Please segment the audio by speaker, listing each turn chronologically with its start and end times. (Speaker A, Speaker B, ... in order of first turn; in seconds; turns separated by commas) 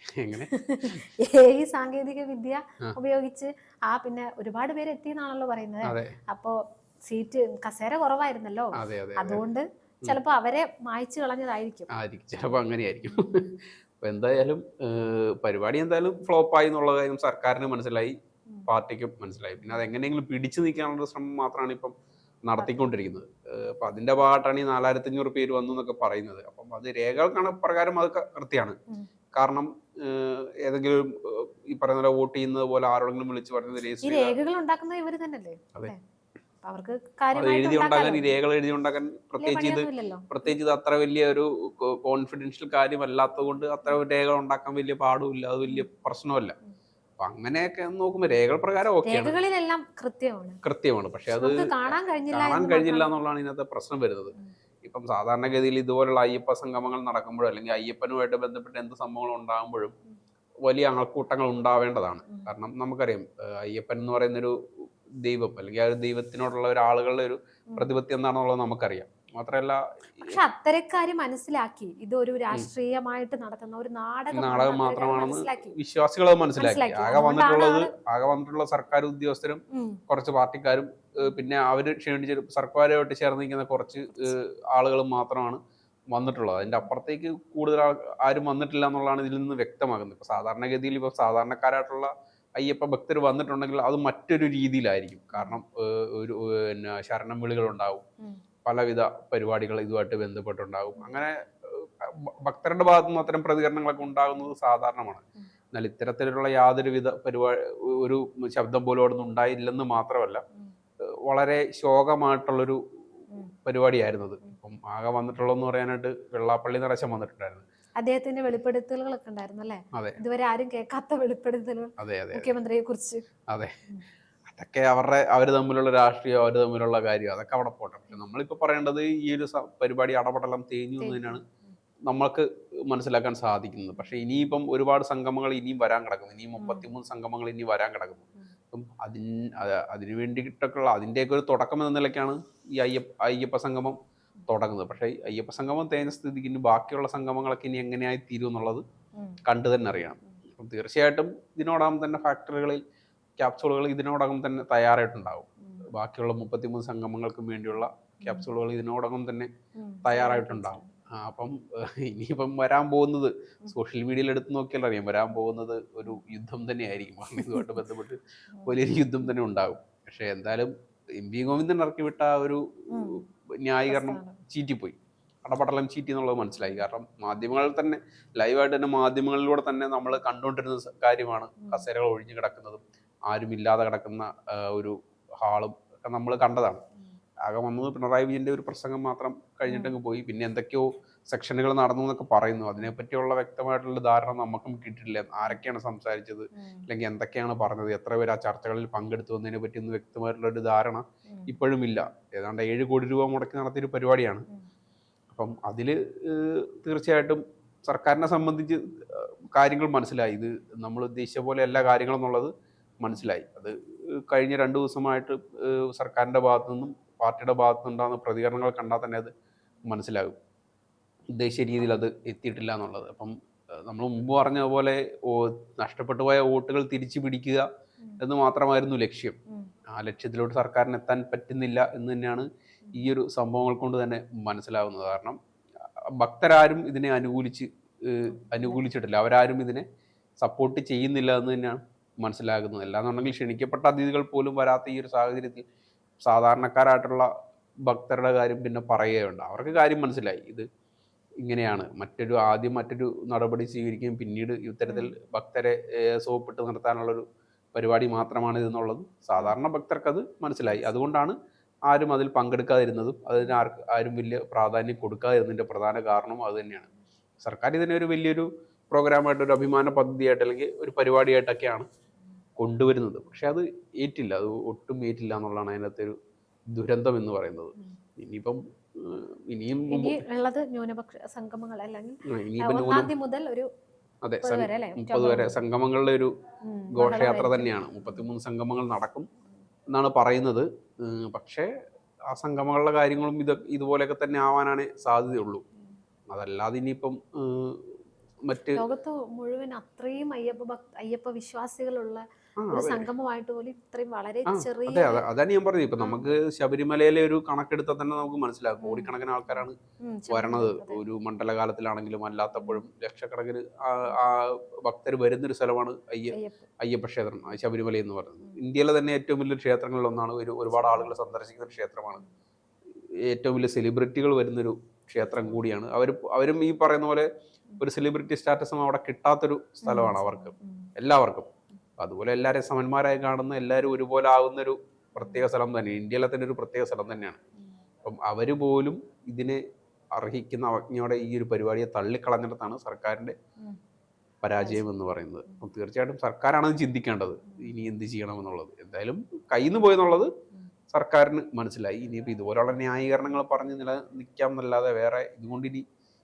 Speaker A: 0.2-1.0, Speaker B: 0.5-11.9, Speaker A: 5.8-6.2, Speaker A: 8.8-9.4, Speaker A: 11.9-18.1, Speaker A: 18.7-21.9, Speaker A: 22.5-28.8, Speaker B: 22.6-22.9, Speaker A: 29.4-34.4, Speaker B: 34.0-36.0, Speaker B: 36.6-38.3, Speaker A: 37.3-46.6, Speaker B: 39.4-40.3, Speaker A: 47.2-49.4, Speaker B: 49.0-50.6, Speaker A: 50.6-54.3, Speaker B: 51.3-53.1, Speaker A: 54.9-60.0, Speaker A: 60.7-64.5, Speaker A: 65.2-70.4, Speaker B: 70.3-75.8, Speaker A: 74.3-85.6, Speaker B: 76.6-77.9, Speaker B: 79.7-80.0, Speaker A: 86.1-98.0, Speaker B: 86.6-86.9, Speaker B: 95.3-95.6, Speaker A: 98.7-110.4, Speaker B: 104.0-104.5, Speaker A: 111.3-112.8, Speaker A: 113.6-117.6, Speaker B: 118.0-123.2, Speaker A: 119.9-120.2, Speaker A: 122.0-122.5, Speaker A: 124.5-131.4, Speaker B: 131.0-131.7, Speaker A: 132.1-144.0, Speaker B: 136.6-136.9, Speaker A: 144.5-148.8, Speaker A: 149.4-152.8, Speaker A: 153.4-159.5, Speaker B: 155.6-155.9, Speaker B: 158.2-158.5, Speaker B: 159.8-160.9, Speaker A: 160.1-186.8, Speaker B: 172.9-173.2, Speaker B: 173.9-174.4, Speaker A: 187.5-204.5, Speaker B: 189.7-189.9, Speaker B: 196.6-196.9, Speaker A: 205.3-212.5, Speaker A: 213.0-219.3, Speaker A: 219.9-220.3, Speaker A: 221.3-223.3, Speaker A: 223.9-227.7, Speaker A: 228.2-229.4, Speaker A: 229.9-235.4, Speaker A: 236.2-239.8, Speaker B: 238.4-238.8, Speaker A: 240.4-245.6, Speaker A: 246.2-247.3, Speaker A: 247.9-250.7, Speaker A: 251.4-261.4, Speaker B: 254.9-255.1, Speaker A: 261.9-266.9, Speaker A: 267.4-271.9, Speaker A: 272.6-276.2, Speaker A: 276.8-280.2, Speaker B: 279.9-283.7, Speaker A: 282.3-283.1, Speaker A: 284.2-286.3, Speaker B: 284.4-285.6, Speaker B: 286.7-287.8, Speaker A: 286.9-289.3, Speaker A: 289.9-291.7, Speaker A: 292.3-295.6, Speaker A: 296.3-297.9, Speaker A: 298.5-298.8, Speaker B: 298.8-305.2, Speaker A: 302.6-303.1, Speaker A: 304.5-309.8, Speaker B: 306.0-306.2, Speaker B: 308.8-311.0, Speaker A: 310.3-322.2, Speaker B: 312.6-312.8, Speaker B: 316.3-316.7, Speaker B: 320.8-321.1, Speaker A: 323.3-327.3, Speaker A: 327.8-331.5, Speaker B: 329.8-330.9, Speaker A: 332.0-337.4, Speaker B: 335.2-335.5, Speaker A: 338.0-339.6, Speaker A: 340.2-343.4, Speaker A: 344.4-350.3, Speaker A: 350.9-355.8